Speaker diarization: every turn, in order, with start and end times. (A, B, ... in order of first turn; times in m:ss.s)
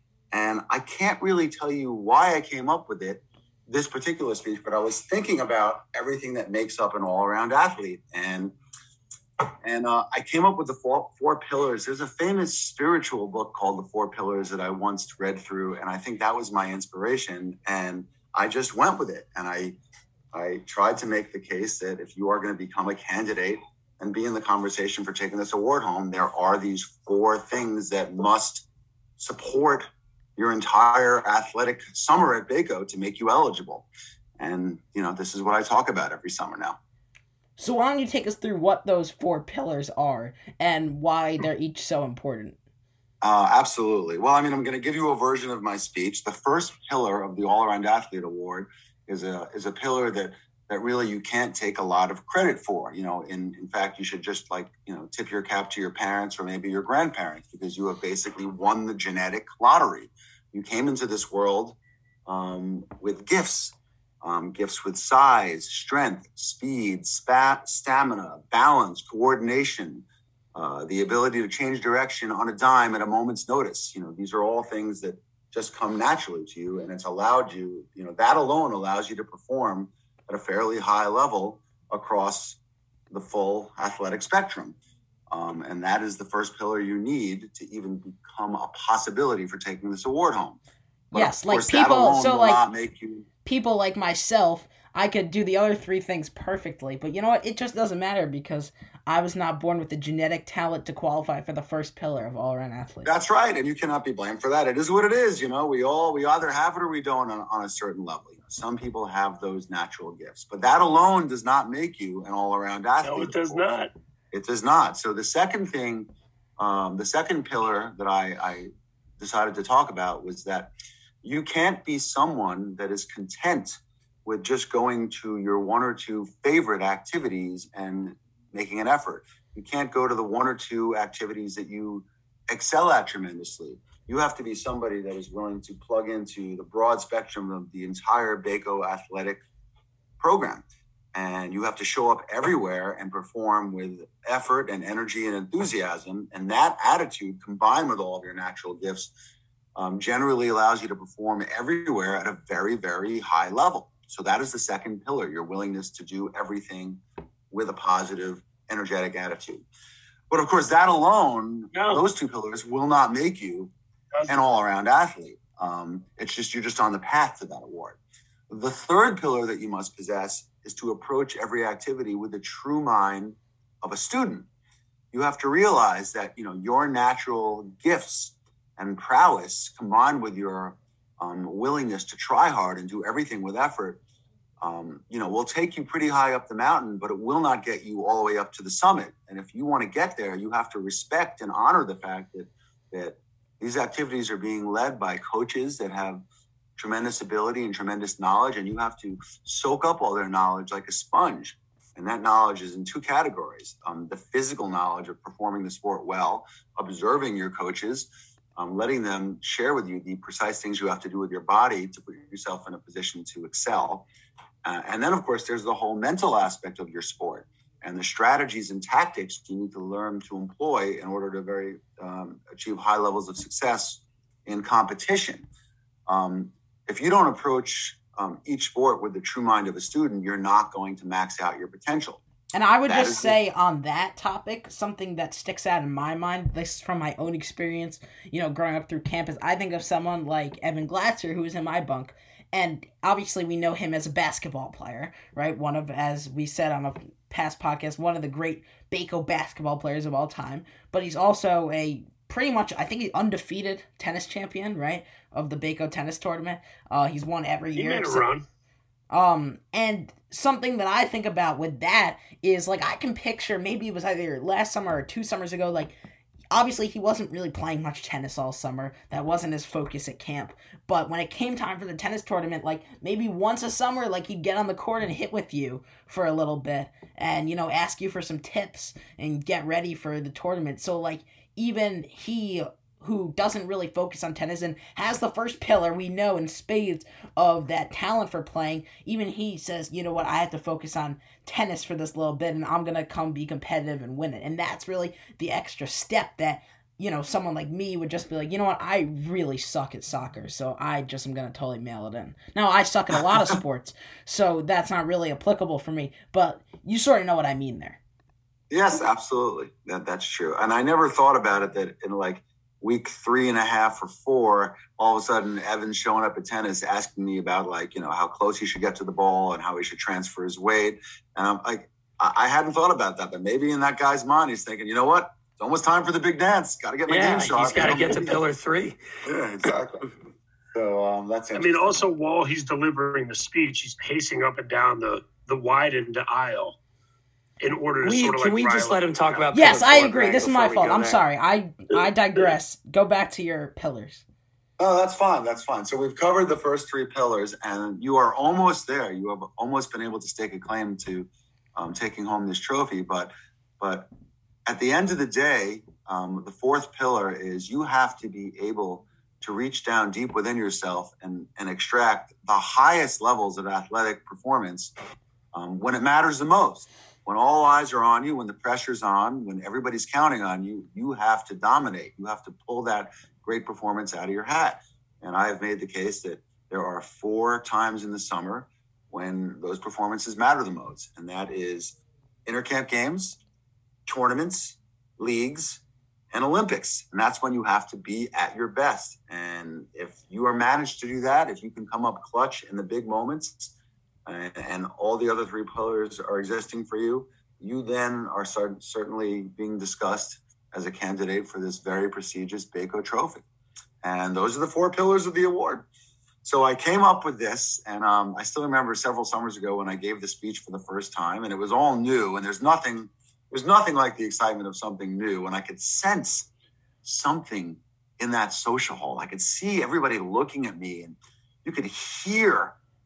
0:00.3-0:08.5 A
0:09.6-0:19.8 A
0:20.3-0:28.6 A
0:29.2-0:33.9 A
0:34.4-0:36.8 A
0:37.6-0:42.6 B
0:43.2-1:22.6 A
1:23.1-1:24.8 A
1:25.3-1:30.6 A
1:31.1-1:33.2 A
1:31.1-1:32.6 B
1:33.4-1:43.1 B
1:43.0-1:53.8 A
1:53.0-1:53.9 C
1:54.3-2:00.7 A
2:01.2-2:19.4 A
2:20.2-2:29.1 A
2:29.8-2:39.6 A
2:40.3-2:43.7 A
2:41.7-2:42.0 C
2:44.3-2:48.0 A
2:48.5-2:54.5 A
2:55.1-3:04.0 A
3:04.6-3:16.2 A
3:16.8-3:34.1 A
3:34.6-3:45.4 A
3:46.1-3:52.2 A
3:52.5-4:18.3 B
3:52.9-3:53.3 A
4:17.7-4:18.4 C
4:19.1-4:26.0 B
4:26.5-5:08.0 B
5:08.7-5:28.4 A
5:27.1-5:29.0 D
5:29.2-5:30.1 A
5:30.7-5:32.0 A
5:31.5-5:36.8 C
5:37.6-5:39.8 C
5:38.0-5:41.2 D
5:39.5-5:44.2 B
5:44.8-5:54.1 A
5:54.6-6:04.9 A
6:05.5-6:23.4 A
6:24.0-6:33.7 A
6:34.2-6:43.4 A
6:44.0-6:45.8 A
6:46.4-6:56.5 A
6:57.0-7:02.8 A